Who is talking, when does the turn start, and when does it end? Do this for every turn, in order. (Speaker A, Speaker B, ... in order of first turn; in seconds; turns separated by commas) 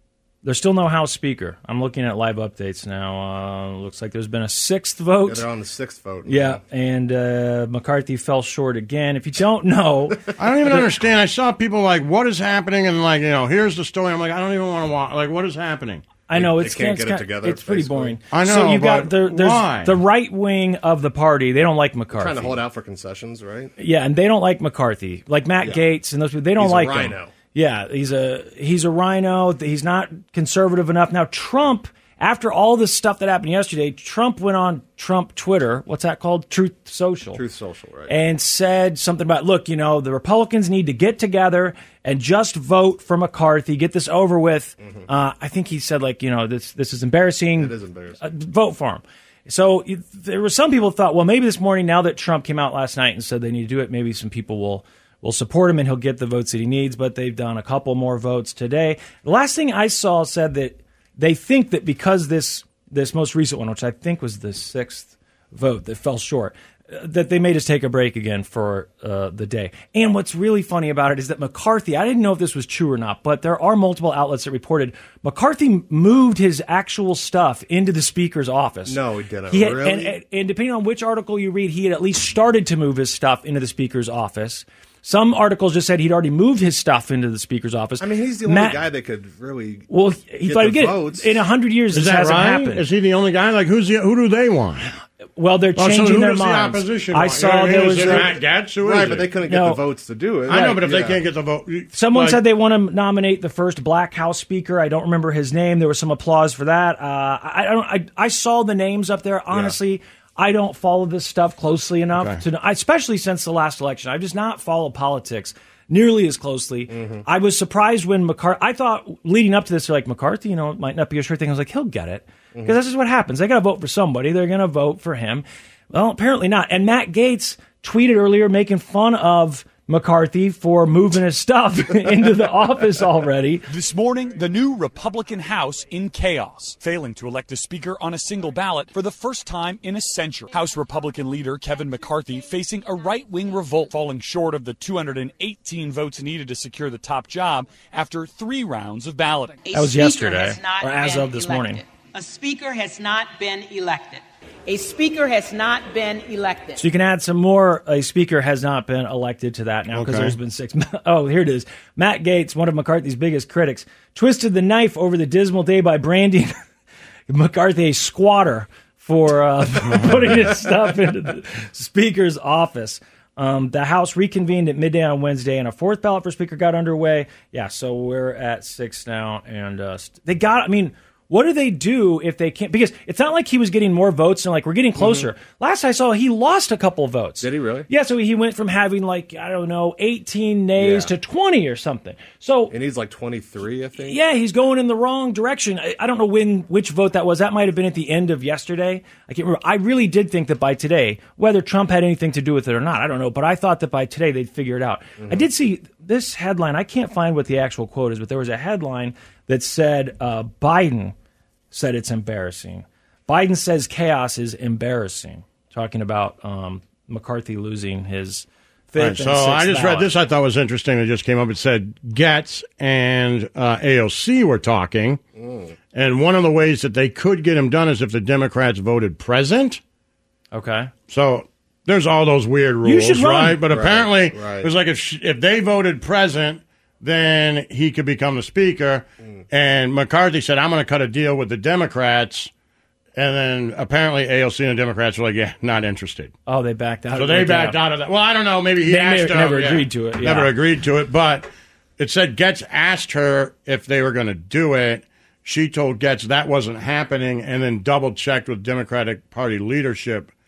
Speaker A: 0.4-5.4, Speaker B: 5.2-6.6, Speaker A: 6.2-10.9, Speaker C: 10.4-16.1, Speaker A: 16.3-22.6, Speaker B: 16.3-18.2, Speaker C: 18.3-20.0, Speaker B: 22.1-23.7, Speaker A: 23.8-37.4, Speaker B: 26.6-27.3, Speaker B: 37.3-38.1, Speaker A: 38.1-79.0, Speaker B: 47.6-48.2, Speaker B: 78.9-80.1, Speaker A: 79.5-88.8, Speaker B: 88.0-89.9, Speaker A: 89.9-92.8, Speaker B: 90.4-91.3, Speaker C: 91.9-94.9, Speaker A: 95.4-98.3, Speaker C: 95.8-99.3, Speaker B: 97.9-101.2, Speaker A: 99.5-99.8, Speaker C: 100.5-102.4, Speaker A: 100.5-100.8, Speaker A: 101.9-133.7, Speaker B: 116.9-117.2, Speaker D: 133.7-149.6, Speaker E: 149.7-156.8, Speaker A: 149.7-151.8, Speaker A: 156.8-166.5, Speaker C: 159.9-160.3, Speaker A: 167.3-192.7, Speaker C: 170.0-170.3, Speaker B: 185.0-185.3, Speaker B: 187.4-187.9, Speaker B: 190.8-191.1, Speaker B: 192.7-194.2, Speaker A: 194.0-211.1, Speaker B: 205.2-205.4, Speaker A: 211.7-220.1, Speaker C: 219.0-225.2, Speaker B: 225.3-225.7, Speaker C: 225.9-229.8, Speaker A: 230.5-230.9, Speaker C: 231.1-242.5, Speaker A: 232.8-233.6, Speaker B: 233.7-234.7, Speaker C: 243.2-246.3, Speaker A: 246.5-247.8, Speaker C: 247.1-251.5, Speaker A: 248.8-250.5, Speaker C: 252.0-260.3